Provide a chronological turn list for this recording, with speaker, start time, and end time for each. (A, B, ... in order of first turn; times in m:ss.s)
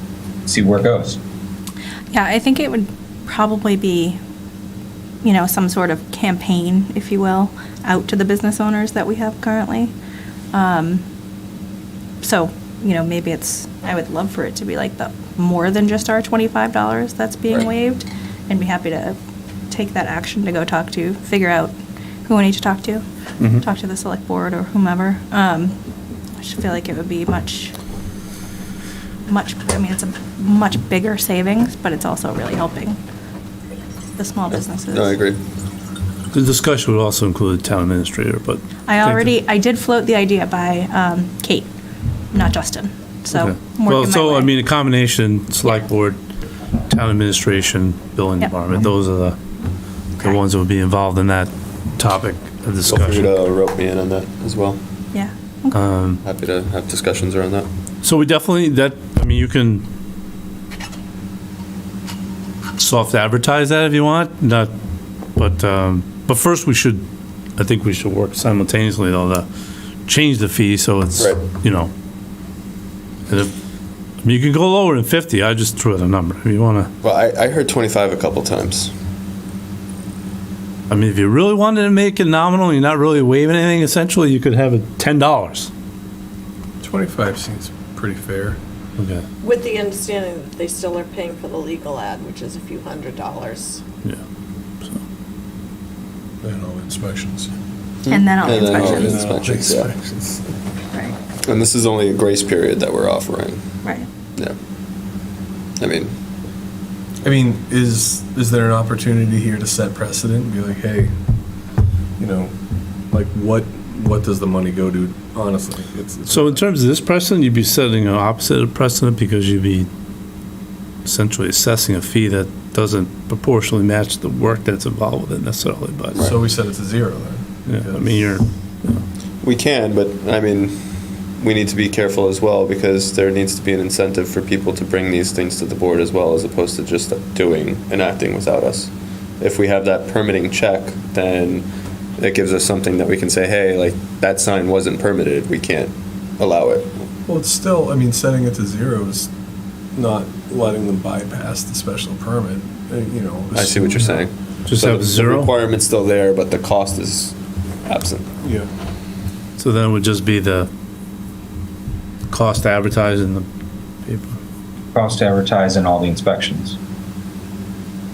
0:00.5-0:01.2 A
0:02.1-0:04.2 B
0:05.2-0:09.9 B
0:10.5-0:11.0 B
0:12.2-0:19.2 B
0:19.7-0:21.7 B
0:22.3-0:25.8 B
0:23.4-0:23.6 C
0:26.4-0:27.7 B
0:29.3-0:33.0 B
0:34.2-0:35.2 B
0:34.5-0:35.4 D
0:36.3-0:39.3 C
0:38.9-0:41.7 B
0:42.3-0:44.5 B
0:43.3-0:46.2 C
0:46.9-0:49.4 C
0:50.2-0:53.4 C
0:52.9-0:54.8 D
0:55.1-0:55.8 B
0:55.7-0:56.2 C
0:56.2-0:57.7 D
0:58.0-0:59.8 C
1:02.8-1:04.7 C
1:05.4-1:07.0 C
1:07.6-1:09.4 C
1:10.1-1:11.9 C
1:14.2-1:16.9 C
1:17.0-1:18.9 D
1:20.9-1:25.7 C
1:26.8-1:28.6 E
1:29.0-1:29.2 C
1:29.4-1:33.8 F
1:36.4-1:37.5 E
1:38.0-1:39.9 D
1:38.1-1:39.2 B
1:38.4-1:40.4 E
1:41.4-1:43.8 D
1:45.8-1:46.1 D
1:47.2-1:51.1 E
1:52.2-1:52.5 E
1:53.1-1:56.7 E
1:56.3-1:59.9 C
2:01.0-2:06.2 C
2:06.2-2:08.4 E
2:07.7-2:09.0 C
2:09.4-2:21.7 D
2:22.2-2:27.1 D
2:27.2-2:29.3 E
2:30.0-2:34.3 E
2:33.5-2:38.3 D
2:34.7-2:35.6 C
2:38.4-2:38.7 E
2:39.6-2:40.7 C
2:42.3-2:43.5 C
2:44.0-2:44.4 C
2:44.9-2:46.8 A